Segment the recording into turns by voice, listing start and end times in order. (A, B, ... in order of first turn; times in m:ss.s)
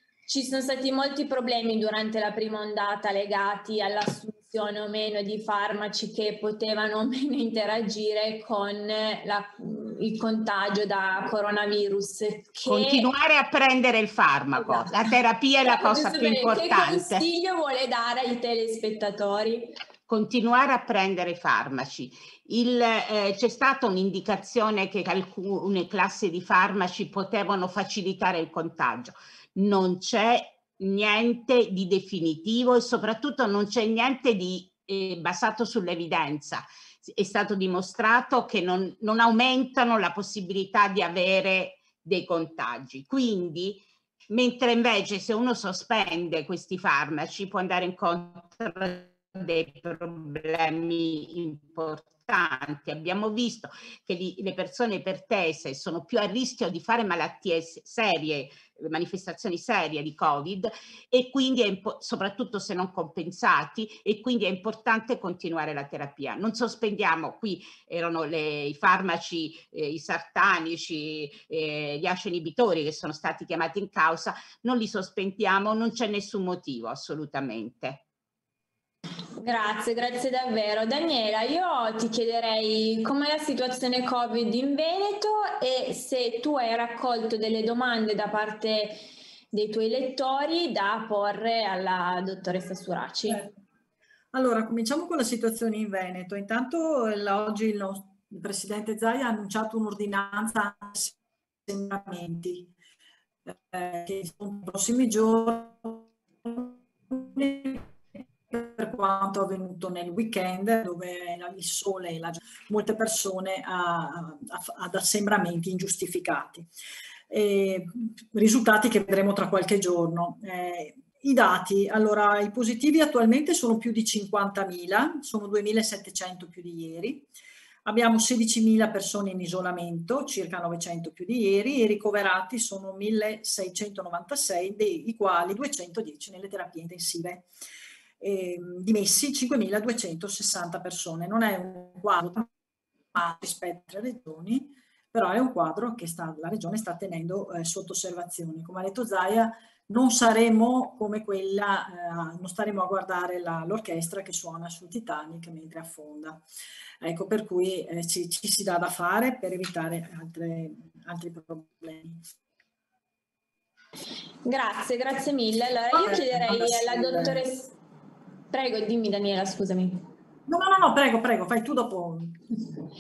0:00.3-0:13.1 A
0:12.7-0:17.2 B
0:14.6-0:15.1 A
0:15.6-0:19.7 A
0:20.1-1:18.0 B
1:19.4-1:29.0 A
1:29.5-1:33.5 A
1:34.3-1:42.7 C
1:43.5-1:56.7 C
1:57.3-2:07.3 C
2:07.8-2:17.5 C
2:18.2-2:22.5 C
2:23.1-2:36.4 C
2:37.0-2:42.2 C
2:44.4-2:47.7 A
2:45.9-2:47.4 C
2:48.5-2:50.0 A
2:50.5-2:52.7 C